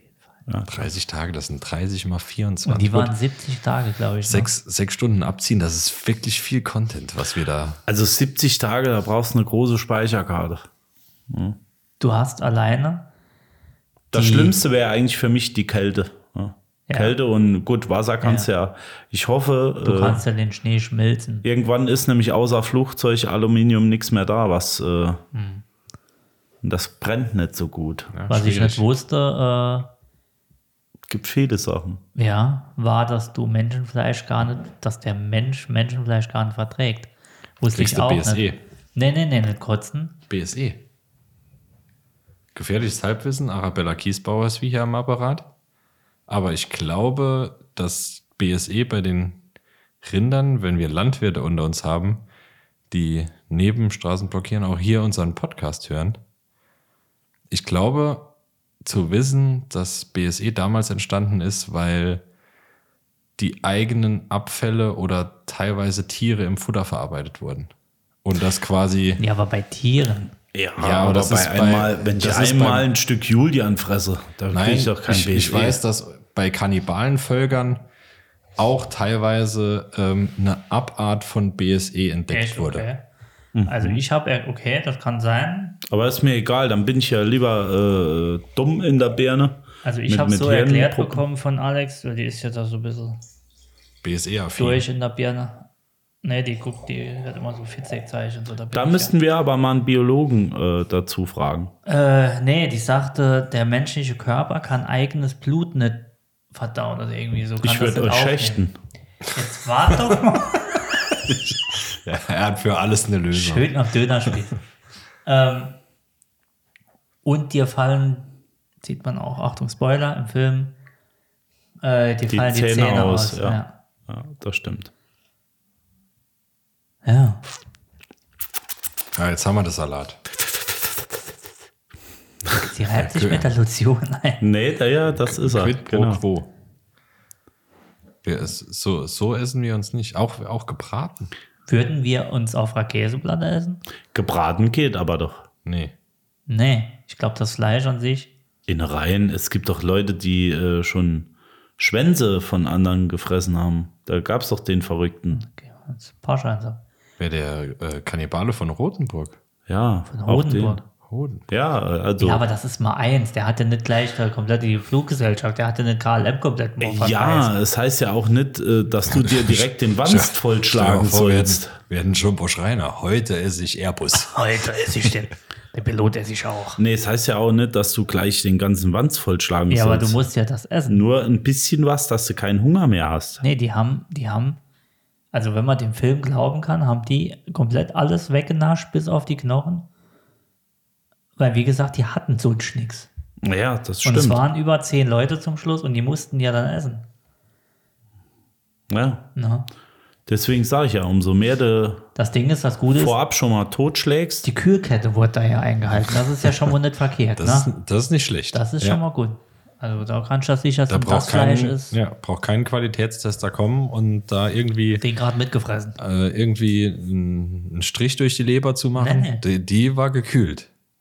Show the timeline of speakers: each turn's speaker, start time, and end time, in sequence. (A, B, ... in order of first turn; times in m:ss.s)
0:00.5-0:00.8 A
0:00.7-0:03.2 B
0:02.6-0:04.5 C
0:04.2-0:07.8 B
0:07.9-0:10.7 A
0:11.3-0:11.6 A
0:12.0-0:13.1 C
0:14.1-0:20.2 A
0:14.1-0:14.6 C
0:16.9-0:17.2 C
0:18.2-0:18.5 C
0:19.8-0:21.5 C
0:21.4-0:25.2 A
0:25.3-0:25.6 C
0:26.6-0:28.8 A
0:28.3-0:29.9 C
0:31.1-0:32.0 A
0:32.2-0:40.2 C
0:37.7-0:38.6 B
0:40.3-0:40.8 B
0:42.5-0:45.5 B
0:46.3-0:49.4 B
0:50.0-0:52.2 B
0:52.9-0:56.2 B
0:57.5-1:02.2 B
1:03.4-1:07.7 B
1:08.2-1:09.2 B
1:09.2-1:10.4 C
1:10.5-1:15.8 A
1:10.8-1:12.9 B
1:14.5-1:17.8 B
1:18.6-1:22.9 B
1:22.3-1:23.0 C
1:23.6-1:24.0 A
1:23.7-1:25.8 C
1:25.9-1:31.2 A
1:29.8-1:33.2 C
1:34.0-1:34.8 B
1:34.6-1:35.7 C
1:36.2-1:39.1 C
1:38.7-1:41.7 A
1:41.9-1:48.7 C
1:47.6-1:48.8 A
1:49.3-1:50.6 C
1:51.3-1:53.7 B
1:53.3-1:54.6 C
1:55.2-1:55.8 C
1:57.2-1:58.3 C
1:58.8-2:00.8 C
2:01.8-2:03.7 C
2:02.3-2:04.9 A
2:07.0-2:07.4 C
2:09.2-2:10.2 B
2:12.6-2:14.4 C
2:12.9-2:13.5 B
2:14.4-2:16.2 A
2:15.2-2:16.5 B
2:18.2-2:21.3 B
2:21.7-2:23.8 C
2:24.1-2:25.5 A
2:25.6-2:25.9 B
2:26.5-2:28.3 C
2:28.7-2:35.4 A
2:35.3-2:36.8 C
2:37.2-2:39.4 B
2:39.7-2:40.8 A
2:40.1-2:40.8 C
2:41.1-2:41.5 B
2:41.5-2:42.4 A
2:42.2-2:47.5 C
2:46.8-2:51.8 A
2:49.1-2:54.4 B
2:54.1-2:56.8 C
2:56.8-3:00.2 A
2:59.7-3:01.0 C
3:00.9-3:03.4 A
3:03.4-3:04.6 C
3:05.3-3:09.9 C
3:11.4-3:13.1 C
3:13.4-3:14.4 A
3:14.0-3:17.1 C
3:18.9-3:19.3 A
3:19.4-3:19.7 C
3:20.3-3:22.1 A
3:22.2-3:23.2 C
3:23.0-3:24.5 A
3:24.4-3:27.7 C
3:27.4-3:29.0 B
3:28.5-3:32.0 C
3:30.9-3:35.0 B
3:35.0-3:36.0 C
3:36.0-3:40.7 B
3:39.0-3:39.4 C